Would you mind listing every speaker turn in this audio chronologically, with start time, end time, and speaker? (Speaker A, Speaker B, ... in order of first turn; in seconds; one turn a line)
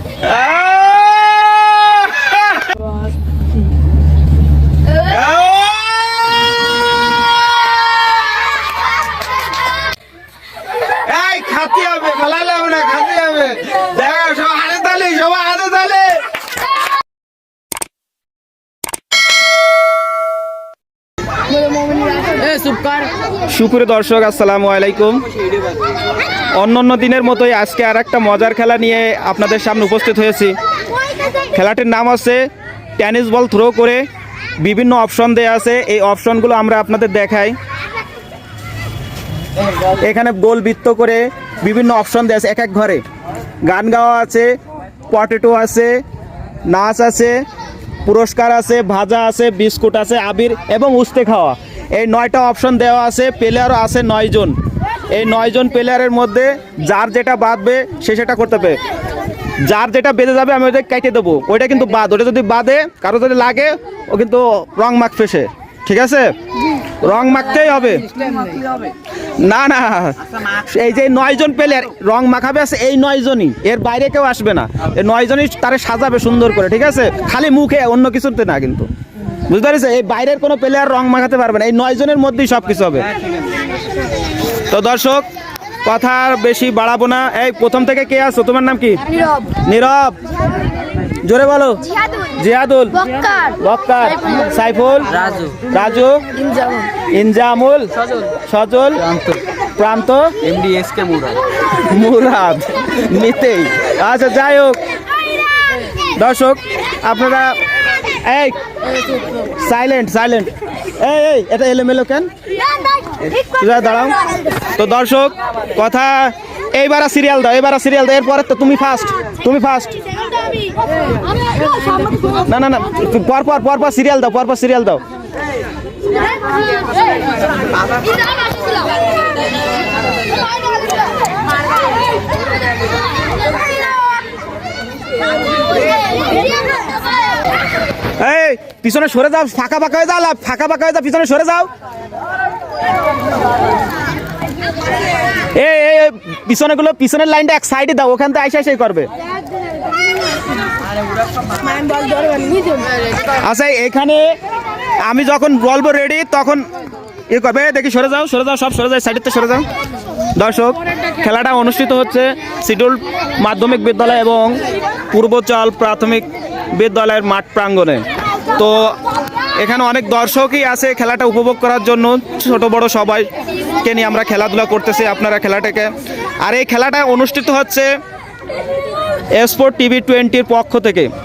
Speaker A: 0.2-2.7
Speaker A: 5.0-6.5
Speaker A: 11.0-16.2
Speaker B: 22.2-22.8
Speaker A: 23.5-25.2
Speaker A: 26.5-30.6
Speaker A: 31.5-32.5
Speaker A: 33.0-34.0
Speaker A: 34.6-37.5
Speaker A: 40.0-43.0
Speaker A: 43.6-44.5
Speaker A: 45.1-46.0
Speaker A: 46.7-47.4
Speaker A: 48.0-54.5
Speaker A: 55.1-58.8
Speaker A: 59.6-66.3
Speaker A: 67.0-68.1
Speaker A: 69.4-78.9
Speaker A: 79.5-83.1
Speaker A: 84.7-85.2
Speaker A: 85.8-89.0
Speaker A: 89.6-90.2
Speaker A: 91.2-91.8
Speaker A: 92.3-96.2
Speaker A: 97.1-99.2
Speaker A: 99.8-100.7
Speaker B: 100.7-101.3
Speaker A: 101.7-104.8
Speaker A: 106.2-107.6
Speaker A: 108.2-108.6
Speaker A: 109.5-112.3
Speaker A: 113.4-114.2
Speaker A: 114.8-119.9
Speaker B: 121.7-122.0
Speaker A: 122.5-125.0
Speaker A: 138.2-141.7
Speaker A: 145.6-149.1
Speaker B: 151.7-152.8
Speaker A: 153.4-154.3
Speaker A: 155.1-156.6
Speaker A: 157.3-159.7
Speaker A: 160.3-168.0
Speaker A: 168.6-169.0
Speaker A: 169.6-173.3
Speaker A: 173.8-175.9
Speaker A: 176.4-177.9
Speaker A: 179.3-181.1